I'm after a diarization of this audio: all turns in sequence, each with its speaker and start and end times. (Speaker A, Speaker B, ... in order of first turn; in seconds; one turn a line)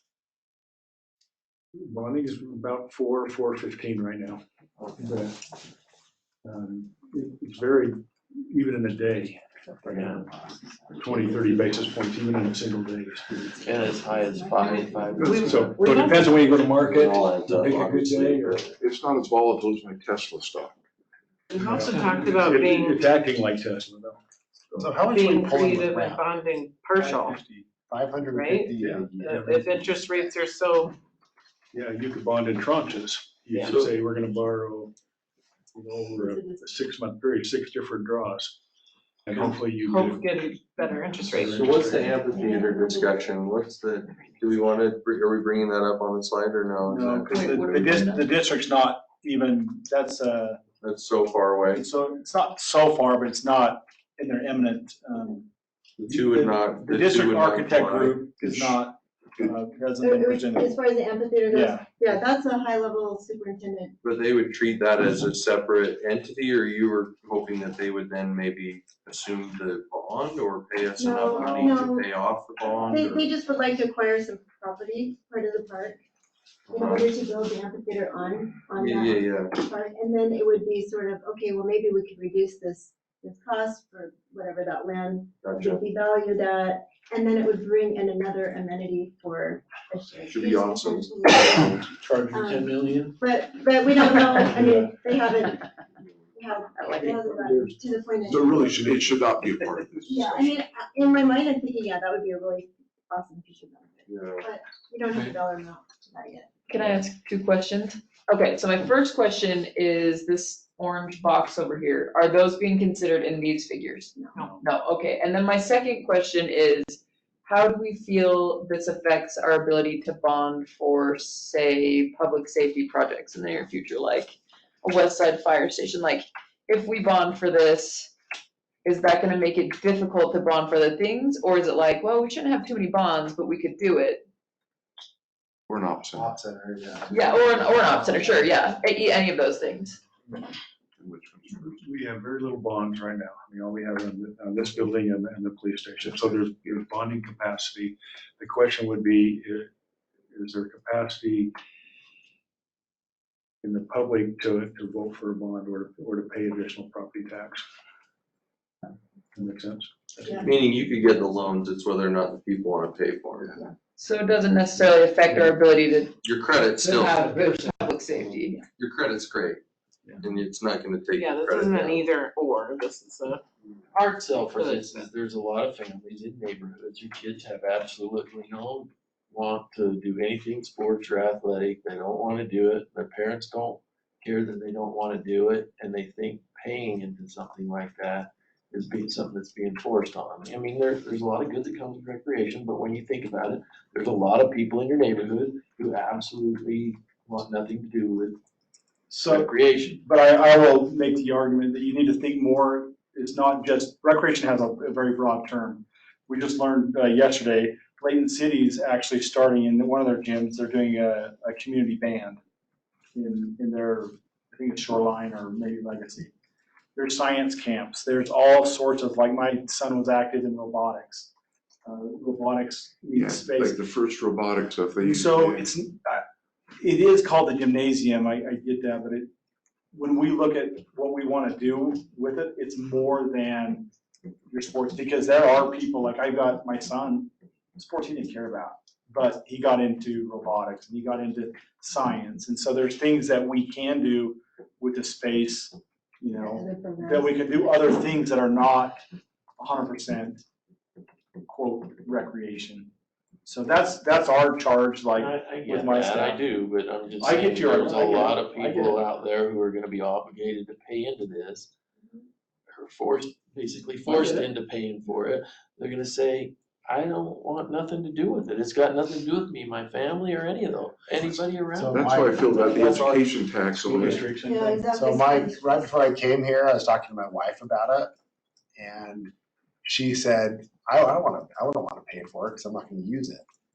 Speaker A: 1.8-4.4
Speaker A: 5.0-5.4
Speaker A: 6.4-10.2
Speaker B: 9.9-10.3
Speaker A: 10.9-13.5
Speaker B: 13.6-15.8
Speaker C: 14.2-15.4
Speaker A: 15.2-18.6
Speaker D: 15.2-16.4
Speaker E: 16.8-18.7
Speaker F: 18.7-20.7
Speaker D: 21.5-23.0
Speaker A: 21.5-24.2
Speaker G: 24.7-26.2
Speaker D: 25.0-27.4
Speaker H: 26.9-27.6
Speaker G: 27.9-29.6
Speaker D: 28.3-30.9
Speaker A: 28.8-30.0
Speaker A: 31.7-34.9
Speaker A: 35.7-38.6
Speaker C: 36.2-36.6
Speaker A: 39.2-40.2
Speaker D: 39.8-41.9
Speaker A: 41.0-42.1
Speaker E: 41.6-48.0
Speaker C: 42.2-43.3
Speaker H: 46.8-50.6
Speaker I: 47.3-48.3
Speaker E: 50.8-51.8
Speaker H: 51.7-55.5
Speaker E: 56.0-58.2
Speaker H: 56.1-60.7
Speaker F: 58.4-58.8
Speaker C: 60.0-64.0
Speaker H: 61.5-61.9
Speaker E: 64.0-73.3
Speaker C: 71.0-72.1
Speaker H: 71.2-71.9
Speaker H: 72.6-73.0
Speaker C: 72.9-76.0
Speaker E: 76.7-77.1
Speaker C: 76.7-95.7
Speaker E: 78.7-79.5
Speaker E: 85.4-85.8
Speaker F: 90.3-91.8
Speaker H: 91.8-92.4
Speaker B: 92.4-93.1
Speaker C: 96.3-99.1
Speaker I: 96.8-97.2
Speaker F: 98.2-100.5
Speaker C: 100.0-106.5
Speaker E: 104.1-104.5
Speaker I: 106.7-128.1
Speaker C: 114.2-114.4
Speaker I: 128.8-134.2
Speaker F: 135.7-136.4
Speaker I: 137.1-140.0
Speaker F: 141.0-141.8
Speaker A: 141.7-149.7
Speaker A: 150.3-151.5
Speaker A: 153.6-157.6
Speaker A: 159.3-160.5
Speaker E: 160.3-163.5
Speaker I: 163.9-166.2
Speaker E: 166.2-167.3
Speaker I: 166.7-168.6
Speaker E: 168.7-169.6
Speaker E: 170.2-172.0
Speaker D: 171.1-173.4
Speaker B: 173.9-198.3
Speaker D: 174.4-175.1
Speaker H: 199.1-199.5
Speaker B: 199.2-200.0
Speaker H: 200.0-212.4
Speaker H: 213.1-216.3
Speaker H: 216.9-221.3
Speaker H: 221.8-223.8
Speaker F: 223.1-225.7
Speaker H: 225.0-226.2
Speaker H: 226.8-229.3
Speaker H: 229.9-233.9
Speaker H: 234.5-249.0
Speaker C: 246.3-247.6
Speaker H: 249.6-250.4
Speaker H: 251.4-252.9
Speaker H: 253.4-256.4
Speaker B: 255.1-261.7
Speaker H: 257.2-259.1
Speaker B: 262.7-272.8
Speaker H: 264.1-264.4
Speaker G: 271.7-273.0
Speaker F: 271.9-274.3
Speaker A: 272.8-274.9
Speaker C: 274.3-275.8
Speaker G: 274.9-278.1
Speaker G: 278.8-279.3
Speaker G: 279.8-283.4